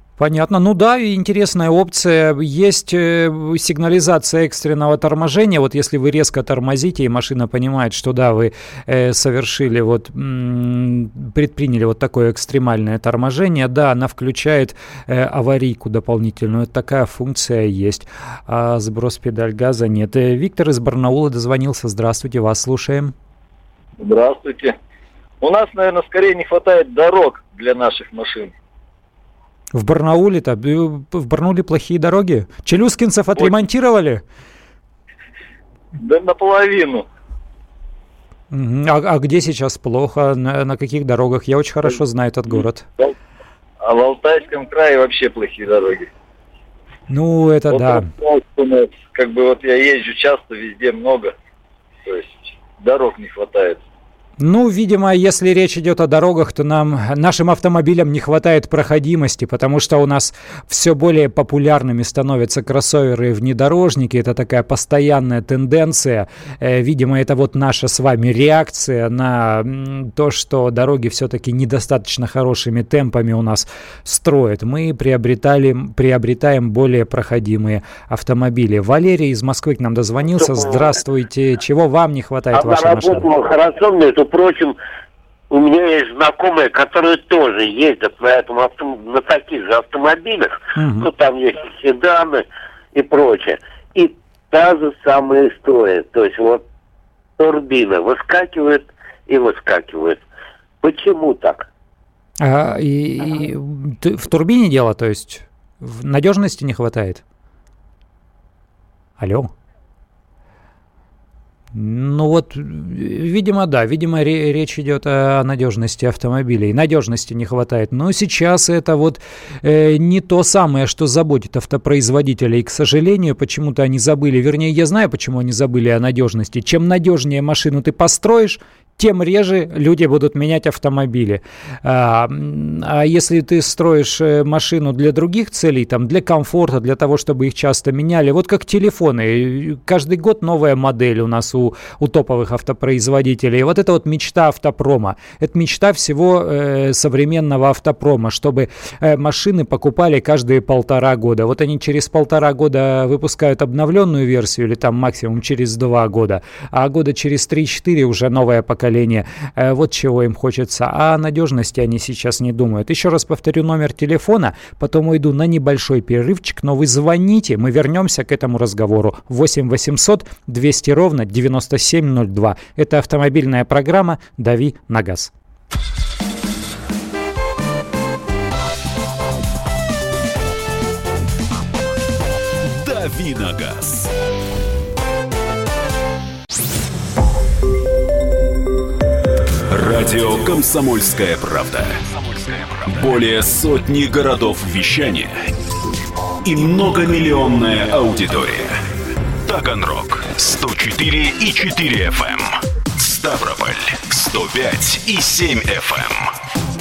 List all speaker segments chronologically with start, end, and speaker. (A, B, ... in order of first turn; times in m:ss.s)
0:00.2-0:23.1 A
0:24.0-0:24.8 B
0:25.4-0:28.5 B
0:29.7-0:34.2 A
0:36.0-0:37.0 B
0:38.5-0:42.9 A
0:43.8-0:46.1 B
0:47.1-0:48.1 A
0:47.7-0:51.3 B
0:52.1-0:53.8 B
0:54.4-1:23.3 A
1:20.3-1:20.9 C
1:22.5-1:24.8 C
1:25.5-1:36.6 C
1:30.8-1:31.1 A
1:37.4-1:40.2 C
1:40.8-1:41.6 C
1:42.4-1:47.2 A
1:49.2-1:49.5 A
1:51.7-2:55.3 A
3:02.6-3:04.1 D
3:09.7-3:15.5 D
3:16.4-3:18.8 D
3:19.4-3:26.4 D